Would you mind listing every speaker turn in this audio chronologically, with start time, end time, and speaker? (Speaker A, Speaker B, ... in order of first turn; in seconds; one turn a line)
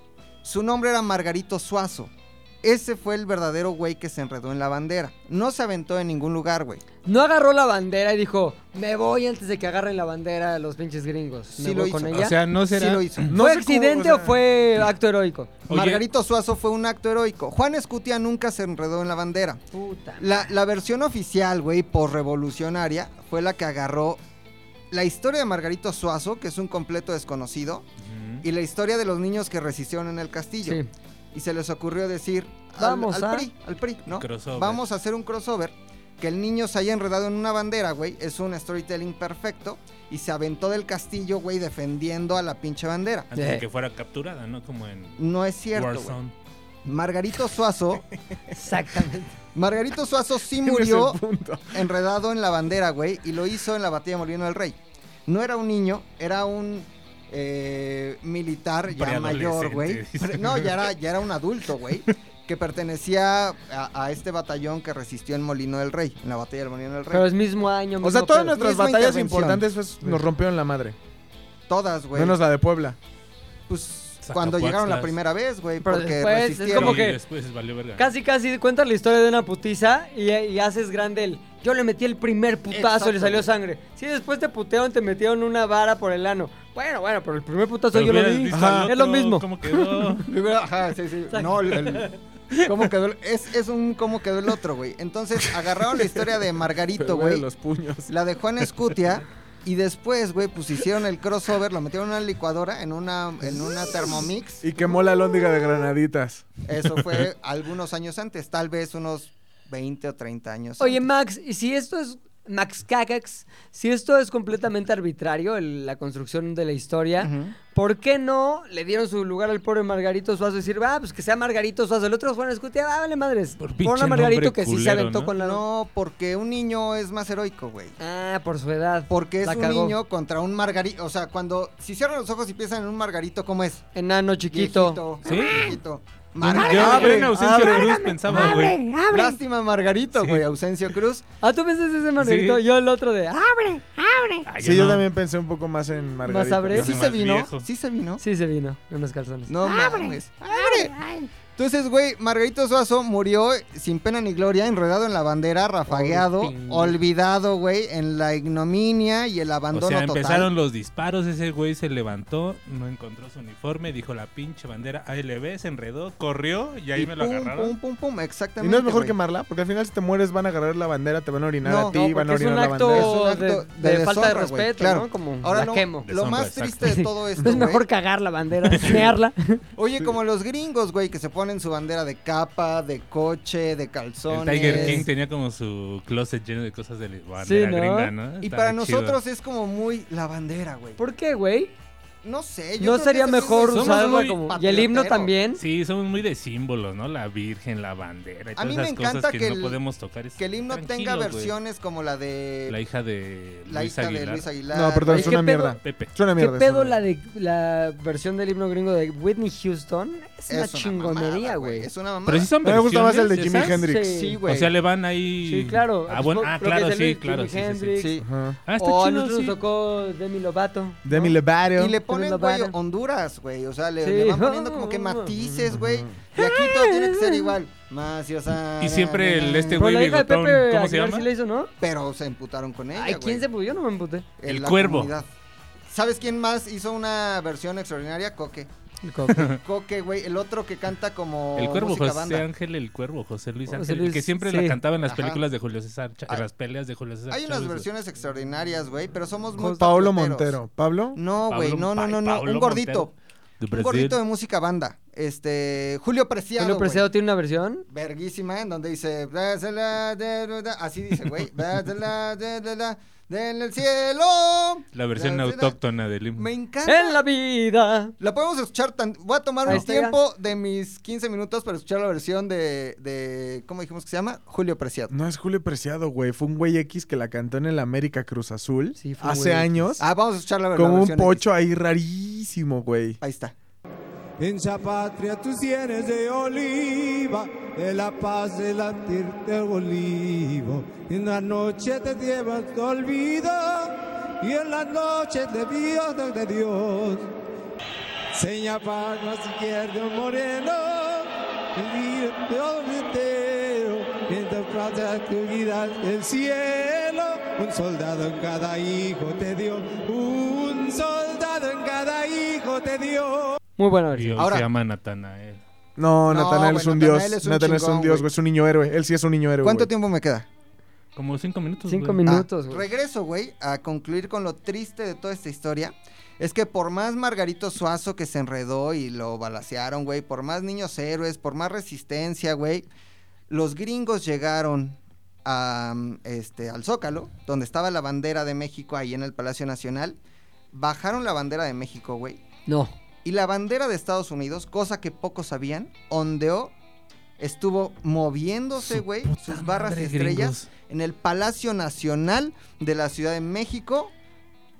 Speaker A: 0.4-6.8
Speaker B: 7.0-12.3
Speaker A: 11.6-13.4
Speaker C: 12.1-13.3
Speaker D: 13.3-14.4
Speaker B: 13.3-15.5
Speaker C: 15.7-16.0
Speaker A: 15.7-19.6
Speaker B: 19.7-20.3
Speaker A: 20.2-24.2
Speaker A: 24.9-27.9
Speaker C: 28.0-28.4
Speaker A: 28.4-30.8
Speaker B: 30.6-30.9
Speaker A: 31.3-43.3
Speaker B: 32.8-33.5
Speaker C: 34.1-34.8
Speaker C: 43.3-45.2
Speaker B: 43.4-43.6
Speaker A: 45.2-46.2
Speaker C: 45.7-46.3
Speaker A: 46.9-48.0
Speaker B: 48.5-49.3
Speaker A: 49.5-51.2
Speaker D: 50.5-51.8
Speaker A: 51.7-67.3
Speaker C: 58.9-60.9
Speaker B: 67.1-68.6
Speaker D: 68.0-71.0
Speaker A: 68.5-69.7
Speaker A: 71.7-72.4
Speaker D: 72.1-73.0
Speaker A: 73.7-77.1
Speaker C: 74.2-75.2
Speaker B: 75.8-77.2
Speaker C: 76.7-78.1
Speaker B: 78.0-90.2
Speaker A: 82.7-83.5
Speaker C: 87.9-90.3
Speaker D: 88.5-88.9
Speaker A: 90.3-97.5
Speaker B: 91.3-92.1
Speaker D: 95.9-96.2
Speaker D: 97.0-98.1
Speaker A: 98.1-104.6
Speaker D: 104.6-106.5
Speaker A: 106.7-111.0
Speaker B: 110.8-125.6
Speaker A: 117.2-117.6
Speaker C: 123.6-125.3
Speaker A: 125.4-128.0
Speaker B: 128.0-130.0
Speaker A: 129.1-133.9
Speaker B: 133.9-135.8
Speaker A: 134.5-137.3
Speaker C: 135.2-135.8
Speaker C: 136.4-138.8
Speaker B: 136.5-139.4
Speaker D: 136.5-138.0
Speaker A: 139.1-141.2
Speaker C: 140.2-140.4
Speaker B: 141.4-144.5
Speaker C: 142.2-142.6
Speaker C: 144.5-145.1
Speaker D: 144.6-147.0
Speaker B: 146.2-146.9
Speaker C: 146.7-147.7
Speaker A: 146.8-148.2
Speaker B: 148.2-151.3
Speaker A: 149.5-150.9
Speaker A: 151.6-160.5
Speaker B: 155.9-157.0
Speaker C: 159.7-167.8
Speaker A: 167.0-169.2
Speaker D: 168.6-173.2
Speaker A: 171.6-172.0
Speaker B: 171.9-176.1
Speaker A: 172.9-177.9
Speaker C: 176.0-177.0
Speaker B: 176.8-179.6
Speaker C: 178.8-179.0
Speaker A: 179.8-185.1
Speaker C: 184.3-189.2
Speaker B: 184.6-185.1
Speaker B: 187.4-188.1
Speaker A: 188.4-191.0
Speaker B: 191.0-191.7
Speaker A: 192.2-195.3
Speaker B: 192.8-195.6
Speaker C: 193.7-194.4
Speaker C: 195.6-201.5
Speaker A: 198.6-199.8
Speaker A: 200.4-202.8
Speaker C: 202.7-204.5
Speaker A: 203.7-205.4
Speaker D: 204.7-207.0
Speaker B: 205.1-205.8
Speaker C: 205.8-206.1
Speaker B: 206.4-211.9
Speaker A: 210.5-212.5
Speaker C: 212.3-213.8
Speaker D: 212.6-214.1
Speaker B: 213.5-214.4
Speaker A: 214.0-214.7
Speaker C: 214.5-218.1
Speaker B: 215.4-218.1
Speaker A: 218.0-218.3
Speaker D: 218.2-218.6
Speaker C: 218.7-219.6
Speaker B: 218.8-221.4
Speaker D: 221.1-222.0
Speaker A: 221.8-229.8
Speaker B: 222.1-222.7
Speaker B: 224.0-225.7
Speaker D: 225.7-226.2
Speaker B: 226.4-227.5
Speaker C: 228.8-231.3
Speaker B: 229.7-231.7
Speaker A: 231.8-233.4
Speaker B: 232.9-234.3
Speaker A: 234.4-235.3
Speaker C: 234.5-235.1
Speaker A: 235.9-238.7
Speaker B: 239.0-239.5
Speaker A: 239.3-242.4
Speaker C: 239.3-239.6
Speaker C: 241.6-247.9
Speaker B: 243.7-244.8
Speaker A: 245.1-245.4
Speaker A: 247.3-250.6
Speaker D: 249.6-251.2
Speaker A: 251.2-253.1
Speaker C: 251.5-254.2
Speaker A: 253.7-257.1
Speaker B: 256.6-257.9
Speaker A: 257.9-265.8
Speaker C: 264.9-266.5
Speaker A: 266.4-267.2
Speaker B: 266.9-268.1
Speaker A: 268.2-275.1
Speaker B: 269.6-270.2
Speaker D: 275.1-280.1
Speaker B: 279.0-279.8
Speaker A: 280.0-281.4
Speaker D: 280.7-283.2
Speaker A: 283.2-283.6
Speaker E: 284.4-297.3
Speaker E: 298.3-313.6
Speaker B: 313.8-314.4
Speaker C: 314.1-315.6
Speaker A: 314.4-314.7
Speaker D: 316.0-319.9
Speaker A: 316.3-318.3
Speaker A: 319.6-320.5
Speaker C: 321.2-322.2
Speaker B: 321.9-322.9
Speaker A: 322.2-332.9
Speaker A: 333.5-340.2
Speaker A: 340.7-342.4
Speaker B: 342.7-342.9
Speaker A: 343.2-346.7
Speaker A: 347.4-354.1
Speaker C: 348.8-350.7